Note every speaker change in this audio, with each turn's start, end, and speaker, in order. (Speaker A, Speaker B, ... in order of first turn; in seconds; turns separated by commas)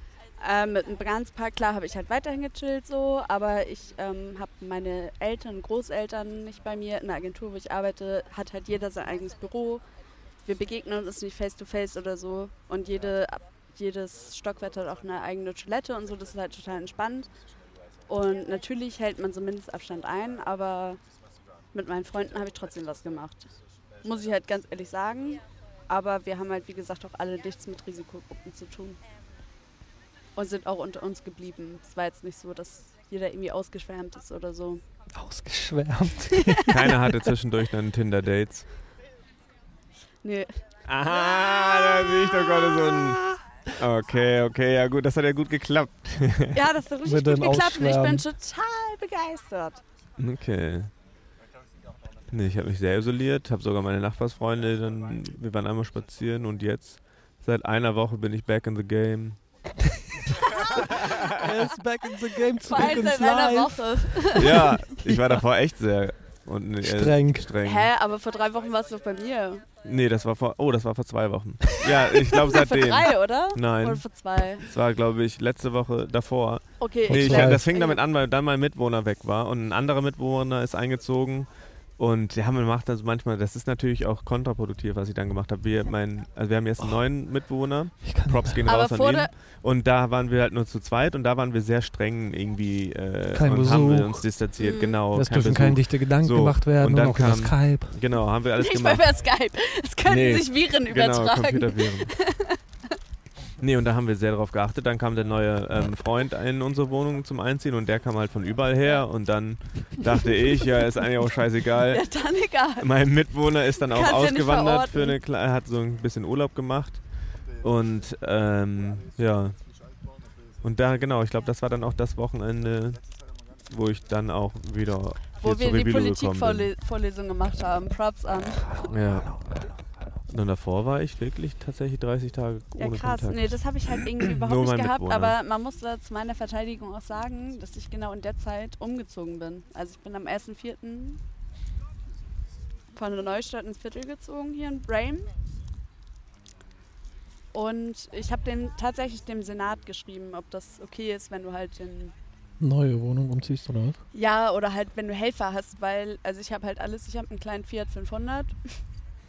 Speaker A: 0.4-9.8, Speaker A: 10.5-17.3, Speaker A: 18.1-21.0, Speaker A: 21.7-23.5, Speaker A: 24.0-29.0, Speaker A: 30.4-34.8, Speaker B: 35.1-37.2, Speaker A: 36.3-36.7, Speaker C: 36.7-38.7, Speaker A: 40.2-40.6, Speaker C: 40.9-43.2, Speaker A: 41.1-43.4, Speaker C: 43.8-46.6, Speaker A: 46.5-49.8, Speaker B: 47.0-48.2, Speaker C: 50.2-50.9, Speaker C: 52.3-59.4, Speaker B: 61.0-65.2, Speaker A: 62.6-64.7, Speaker C: 64.3-67.9, Speaker B: 66.8-67.5, Speaker A: 67.6-69.7, Speaker C: 69.8-74.0, Speaker A: 71.8-74.7, Speaker C: 74.6-99.1, Speaker A: 76.8-78.0, Speaker B: 77.1-77.6, Speaker B: 88.0-88.6, Speaker A: 88.7-89.3, Speaker B: 93.3-94.2, Speaker A: 94.6-95.0, Speaker B: 95.1-98.0, Speaker A: 98.6-102.6, Speaker C: 100.1-102.1, Speaker C: 103.6-112.0, Speaker A: 111.9-112.9, Speaker C: 112.8-117.0, Speaker A: 113.9-115.2, Speaker C: 117.6-119.6, Speaker C: 120.6-123.0, Speaker C: 123.7-126.7, Speaker A: 125.4-128.7, Speaker B: 128.7-129.7, Speaker C: 128.9-129.4, Speaker C: 130.3-133.6, Speaker A: 132.8-141.2, Speaker C: 134.2-135.4, Speaker A: 142.9-145.3, Speaker A: 147.5-152.1, Speaker B: 152.6-154.0, Speaker A: 154.1-158.6